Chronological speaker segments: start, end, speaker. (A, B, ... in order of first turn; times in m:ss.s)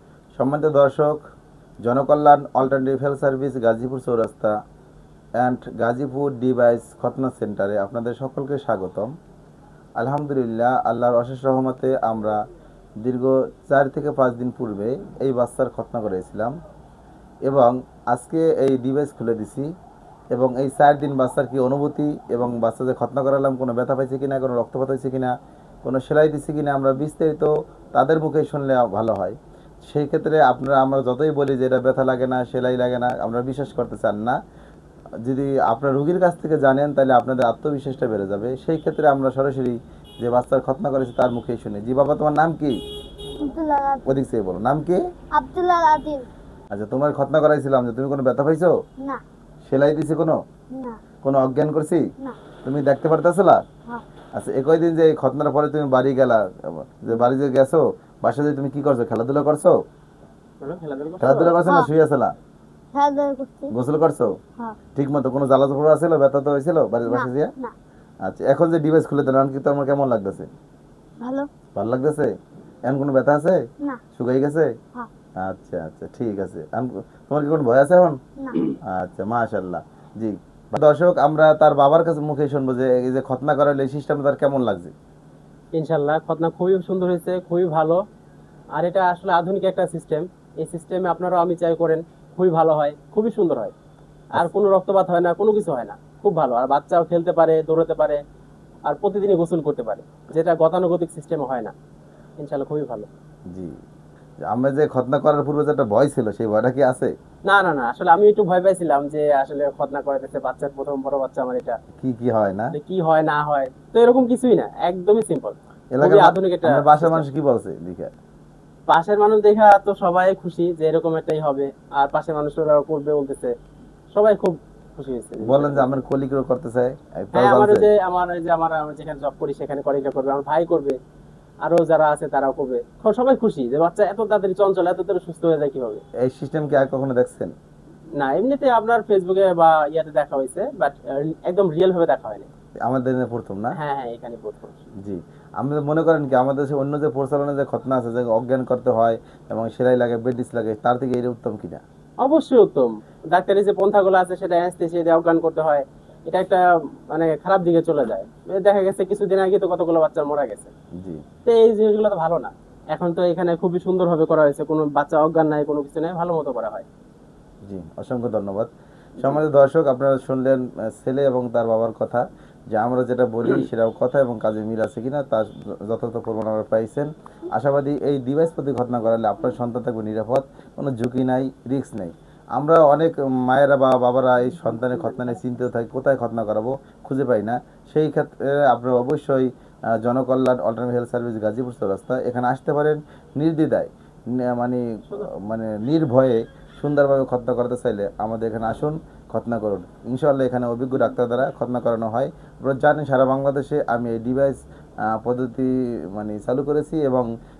0:00.3-0:01.2 A
0:01.8-0:04.6 A
0:05.4-0:09.1 A
0:10.0-0:12.4 A
0:13.0-0:16.5 A
0:17.5-0:19.7 A
0:20.3-0:25.3 A
0:25.8-0:34.4 A
0:35.2-0:42.8 A
0:43.4-0:44.0 B
0:44.0-0:45.0 A
0:45.3-0:46.3 B
0:46.7-0:48.7 A
0:49.6-0:50.4 A
0:50.7-0:51.0 B
0:51.2-0:52.0 A
0:52.6-0:53.6 A
0:54.4-0:59.7 A
1:00.6-1:01.6 C
1:01.2-1:02.3 A
1:02.9-1:03.7 B
1:03.7-1:04.3 A
1:04.9-1:07.5 A
1:07.0-1:07.7 B
1:08.2-1:10.5 A
1:11.8-1:12.3 A
1:12.9-1:13.6 A
1:14.1-1:14.7 A
1:15.4-1:18.2 A
1:18.9-1:24.9 A
1:25.7-1:28.0 C
1:28.8-1:33.7 C
1:34.3-1:38.2 C
1:38.9-1:41.7 C
1:42.4-1:43.1 C
1:44.5-1:47.1 A
1:47.5-1:51.8 C
1:52.0-1:52.7 A
1:52.7-1:57.2 C
1:55.9-1:58.1 A
1:58.9-2:03.5 C
2:04.1-2:06.0 C
2:05.4-2:07.9 A
2:07.3-2:11.0 C
2:11.6-2:16.0 C
2:16.2-2:17.5 A
2:18.2-2:22.5 C
2:22.8-2:23.7 A
2:23.8-2:24.8 C
2:25.0-2:31.8 A
2:32.2-2:40.7 C
2:41.4-2:46.8 C
2:47.6-2:48.7 A
2:49.2-3:24.6 A
3:25.1-3:27.2 A